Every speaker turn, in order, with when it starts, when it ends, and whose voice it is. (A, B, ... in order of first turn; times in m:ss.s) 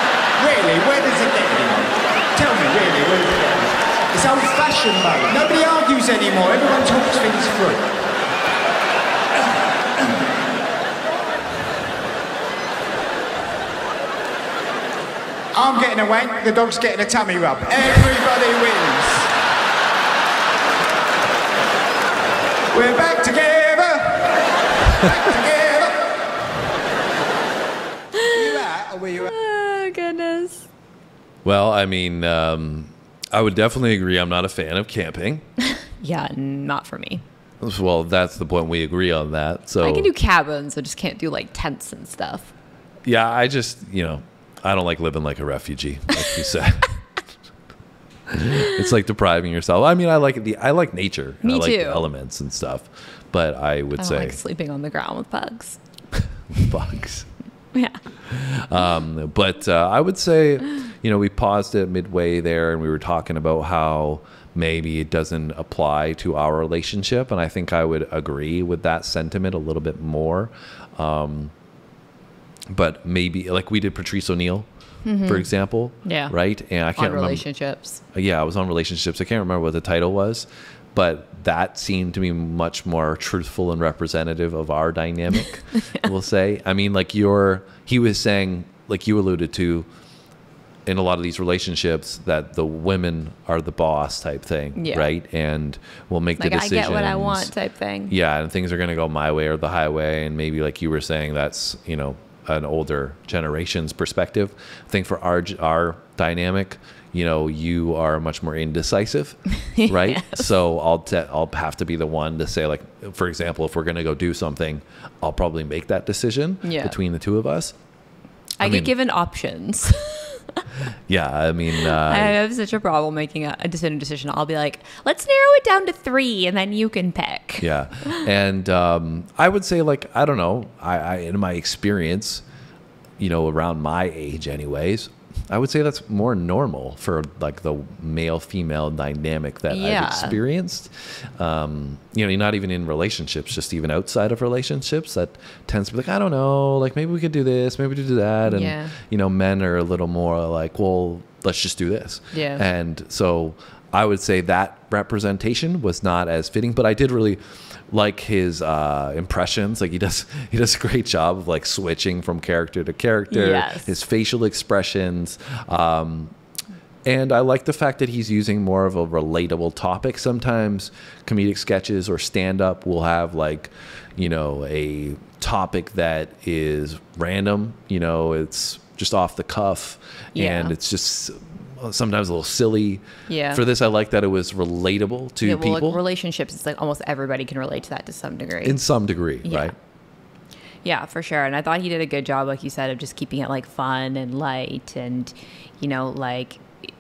0:00.4-0:07.9 A
0:15.5-0:19.3 A
0:22.7-0:26.1 A
0:28.2-0:28.6 B
0:28.3-0:29.3 A
0:29.2-0:30.7 B
0:31.4-0:35.4 C
0:35.9-0:37.2 B
0:37.6-0:40.1 C
0:39.8-0:42.5 B
0:43.1-0:47.0 C
0:48.4-0:54.4 C
0:51.4-0:52.1 B
0:54.0-0:55.8 B
0:56.5-0:57.3 C
0:57.8-0:58.0 B
0:58.2-1:11.5 C
1:12.7-1:14.7 C
1:15.0-1:16.4 B
1:15.2-1:17.4 C
1:16.9-1:18.0 B
1:18.1-1:29.9 C
1:30.9-1:37.5 C
1:34.8-1:35.1 B
1:36.4-1:38.1 B
1:38.1-1:57.8 C
1:49.8-1:50.5 B
1:56.6-1:57.0 B
1:58.6-2:00.4 B
1:58.6-1:58.9 C
2:01.1-2:02.4 C
2:01.8-2:08.2 B
2:07.6-2:12.4 C
2:13.2-2:46.3 C
2:19.7-2:20.4 B
2:28.4-2:29.0 B
2:32.3-2:32.6 B
2:43.3-2:43.9 B
2:47.1-3:06.0 C
3:00.4-3:00.8 B
3:03.3-3:03.6 B
3:05.4-3:08.9 B
3:08.6-3:09.7 C
3:09.4-3:09.8 B
3:10.8-3:16.6 B